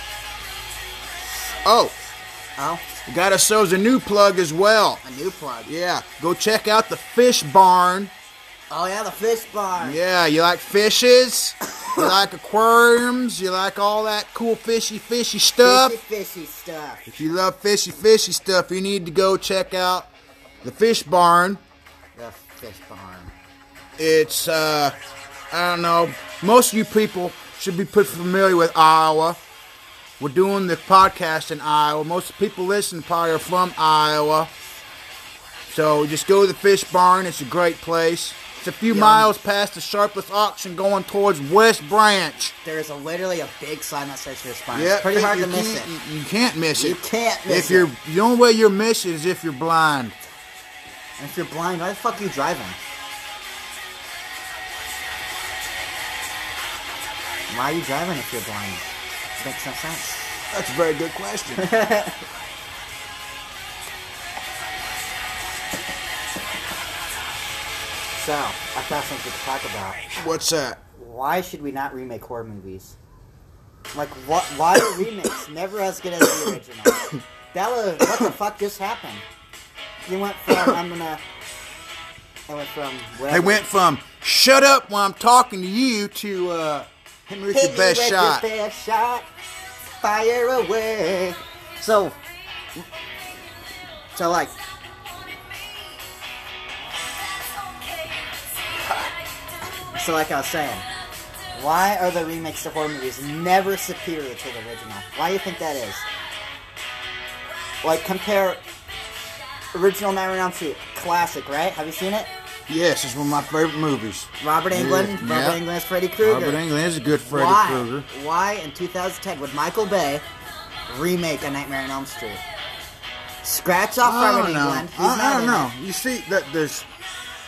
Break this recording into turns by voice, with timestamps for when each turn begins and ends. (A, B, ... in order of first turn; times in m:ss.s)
0:01.6-0:02.0 A
0:02.6-0:02.8 B
0:03.1-0:05.0 A
0:05.0-0:05.7 B
0:05.7-0:08.1 A
0:08.7-0:10.0 B
0:09.8-0:16.0 A
0:11.8-0:12.1 B
0:15.6-0:17.0 B
0:17.1-0:20.1 A
0:20.6-0:21.6 A
0:22.2-0:23.3 B
0:24.0-0:25.0 A
0:25.5-0:29.4 A
0:30.2-0:34.5 A
0:35.7-0:42.5 A
0:38.9-0:39.3 B
0:42.6-0:45.9 B
0:44.7-0:50.2 A
0:46.8-0:47.9 B
0:51.2-0:52.8 B
0:57.5-0:58.9 B
0:59.4-1:00.2 B
1:00.5-1:01.7 A
1:01.6-1:02.2 B
1:08.2-1:10.0 B
1:10.2-1:10.8 A
1:11.0-1:13.0 B
1:13.9-1:19.2 B
1:20.1-1:21.2 B
1:22.5-1:23.6 B
1:23.3-1:28.4 A
1:27.5-1:29.3 B
1:30.0-1:32.2 B
1:34.2-1:34.6 B
1:40.0-1:40.9 B
1:41.5-1:46.1 B
1:47.8-1:48.6 B
1:49.7-1:52.3 B
1:52.7-1:55.6 A
1:54.4-1:56.6 B
1:56.2-1:58.1 A
1:57.2-2:00.2 B
2:00.9-2:02.4 B
2:03.4-2:05.7 B
2:04.0-2:06.9 A